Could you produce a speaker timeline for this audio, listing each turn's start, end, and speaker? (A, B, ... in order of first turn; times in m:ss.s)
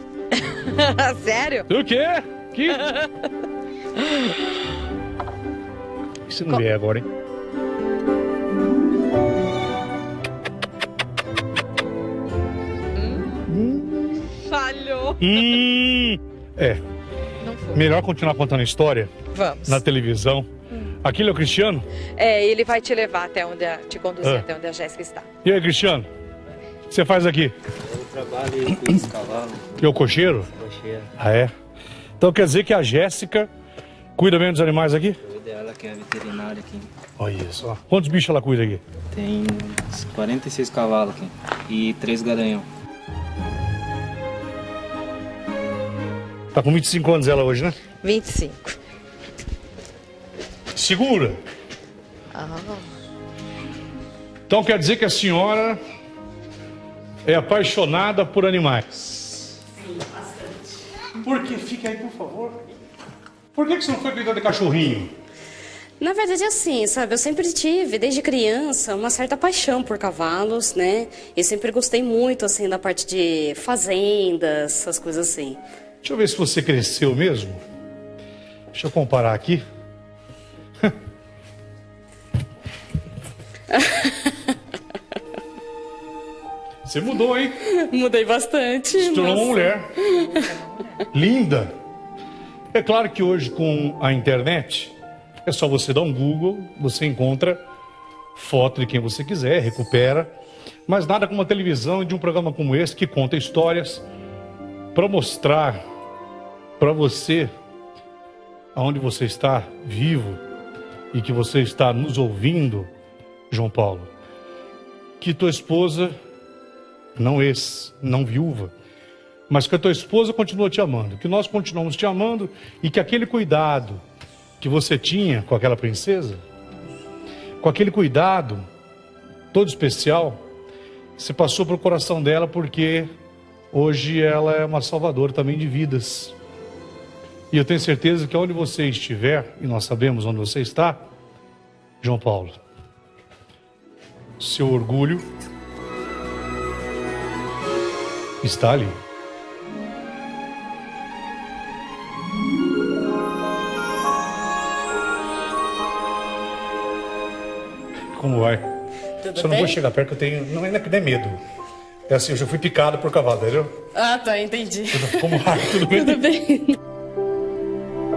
0:00.3-0:01.7 A
0:01.7-0:02.9 B
0:06.3-0:07.1 B
0:13.5-0:14.3 B
0:14.5-0:15.2 A
0:15.2-0:16.8 B
0:17.7-0:19.1 B
0:19.3-0:19.8 A
0:19.7-0:20.5 B
0:21.0-0:21.8 B
0:22.1-0:25.3 A
0:25.4-0:26.1 B
0:26.9-0:27.5 B
0:27.8-0:29.7 C
0:29.8-0:30.5 B
0:30.6-0:31.1 C
0:31.2-0:31.5 B
0:32.2-0:33.5 B
0:34.2-0:35.2 B
0:35.3-0:36.9 C
0:37.2-0:38.8 B
0:39.1-0:42.6 C
0:46.5-0:47.8 B
0:48.0-0:48.8 A
0:50.7-0:51.4 B
0:52.3-0:52.9 A
0:54.5-0:55.8 B
0:57.2-0:59.5 B
1:01.2-1:02.6 B
1:03.5-1:05.1 B
1:06.0-1:15.6 D
1:16.0-1:17.6 B
1:18.7-1:19.6 B
1:26.8-1:27.6 B
1:27.6-1:30.4 D
1:28.9-1:29.9 B
1:31.1-1:31.7 B
1:32.7-1:34.9 B
1:35.4-1:37.6 B
1:38.3-1:40.3 B
1:40.9-1:44.0 B
1:44.9-1:45.8 B
1:46.8-1:47.5 B
1:48.7-1:50.4 B
1:51.1-1:52.9 B
1:53.5-1:54.1 B
1:55.2-1:56.2 B
1:57.2-1:58.7 B
1:59.5-2:04.0 B
2:04.6-2:06.4 B
2:07.6-2:08.6 B
2:09.5-2:10.4 B
2:11.2-2:13.1 B
2:13.7-2:16.3 B
2:17.5-2:21.0 B
2:22.0-2:22.6 B
2:24.4-2:25.2 B
2:28.4-2:29.0 B
2:38.1-2:38.7 B
2:39.2-2:39.8 D
2:39.3-2:41.4 B
2:42.1-2:43.7 B
2:43.9-2:46.8 D
2:44.9-2:46.2 B